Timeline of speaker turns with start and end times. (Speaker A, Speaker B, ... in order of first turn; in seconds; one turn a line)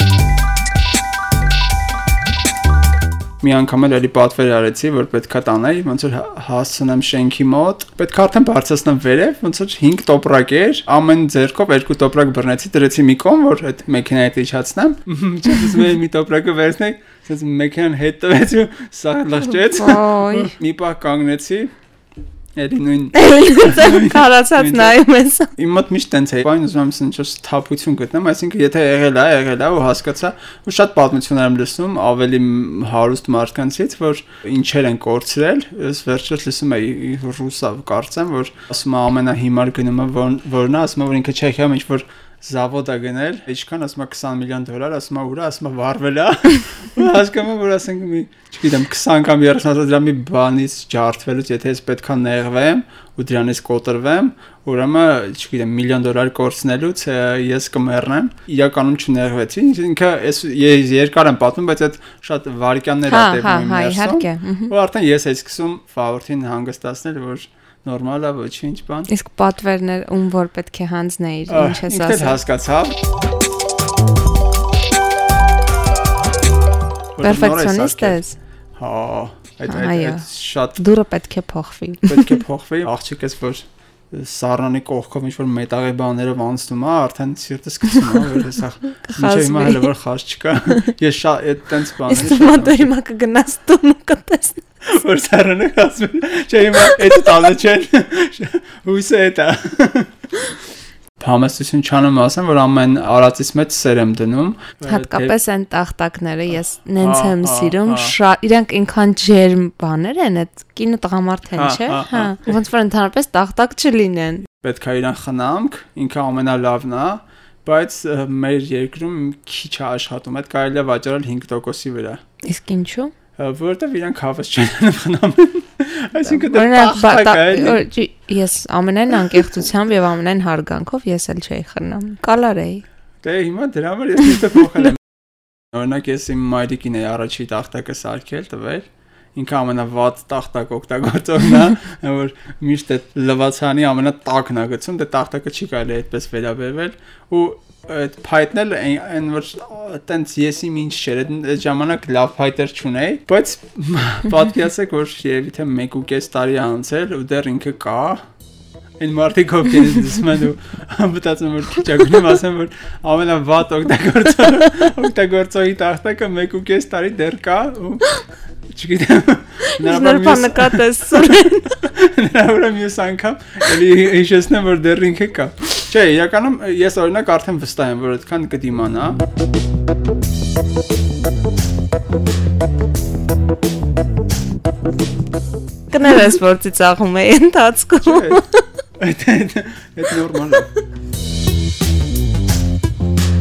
Speaker A: 3.4-21.7
Speaker B: 19.7-20.5
Speaker A: 22.6-25.0
Speaker B: 23.1-25.5
Speaker A: 25.6-69.1
Speaker B: 63.1-64.7
Speaker B: 69.1-72.4
Speaker A: 71.5-73.0
Speaker A: 77.2-78.2
Speaker B: 77.2-78.3
Speaker A: 78.8-80.8
Speaker B: 79.7-82.3
Speaker A: 82.0-92.9
Speaker B: 89.1-89.9
Speaker B: 92.0-94.6
Speaker A: 94.8-100.3
Speaker B: 96.8-97.1
Speaker A: 101.2-105.3
Speaker B: 104.8-114.4
Speaker A: 107.0-108.1
Speaker A: 111.5-112.5
Speaker A: 114.5-122.2
Speaker B: 122.4-123.1
Speaker A: 123.4-127.8
Speaker B: 126.2-132.8
Speaker A: 133.2-135.0
Speaker A: 135.7-158.2
Speaker A: 159.0-179.2
Speaker B: 169.7-171.7
Speaker B: 185.9-188.6
Speaker A: 188.0-188.4
Speaker A: 189.0-190.7